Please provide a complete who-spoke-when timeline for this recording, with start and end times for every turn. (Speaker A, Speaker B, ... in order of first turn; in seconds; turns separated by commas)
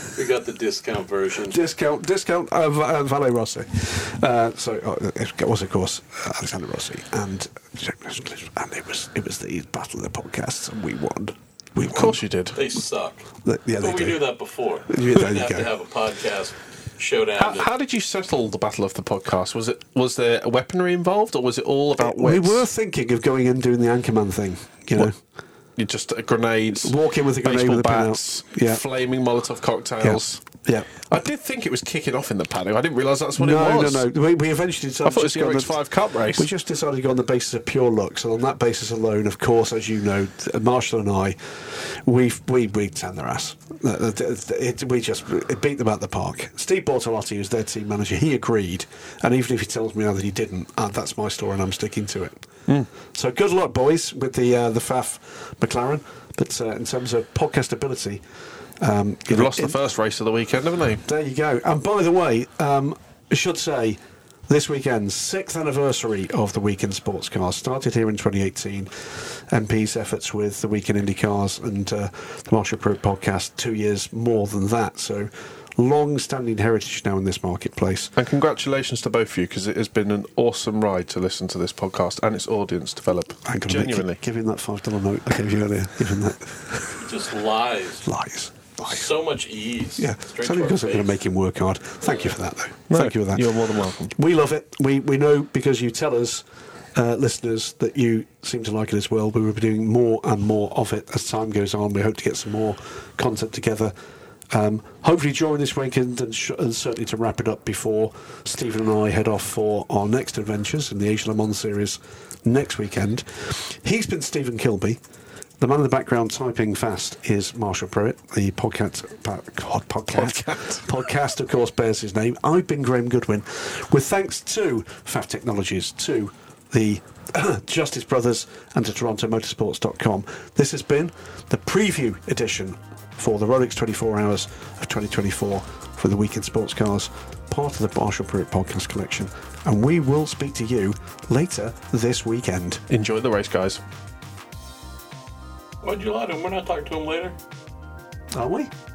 Speaker A: 0.1-1.6, Speaker B: 1.4-12.2, Speaker C: 11.8-12.6, Speaker A: 12.5-13.2, Speaker B: 13.4-14.2, Speaker A: 13.8-17.7, Speaker B: 14.9-15.7, Speaker C: 17.4-22.6, Speaker B: 22.0-25.1, Speaker C: 25.8-30.4, Speaker B: 26.8-28.8, Speaker B: 30.0-30.9, Speaker C: 31.1-34.0, Speaker B: 33.4-35.8, Speaker C: 35.0-36.5, Speaker B: 36.3-52.4, Speaker B: 53.0-58.2, Speaker B: 58.8-59.8, Speaker C: 59.3-61.0, Speaker B: 61.0-78.1, Speaker C: 78.2-84.2, Speaker B: 83.4-87.0, Speaker A: 87.0-88.0, Speaker B: 88.0-89.0, Speaker A: 88.8-91.1, Speaker B: 90.0-96.4, Speaker A: 92.1-92.3, Speaker C: 92.9-94.1, Speaker B: 96.9-103.9, Speaker B: 104.5-115.0, Speaker B: 115.6-142.8, Speaker C: 120.2-120.8, Speaker C: 142.9-143.8, Speaker A: 145.8-147.4, Speaker B: 148.3-148.7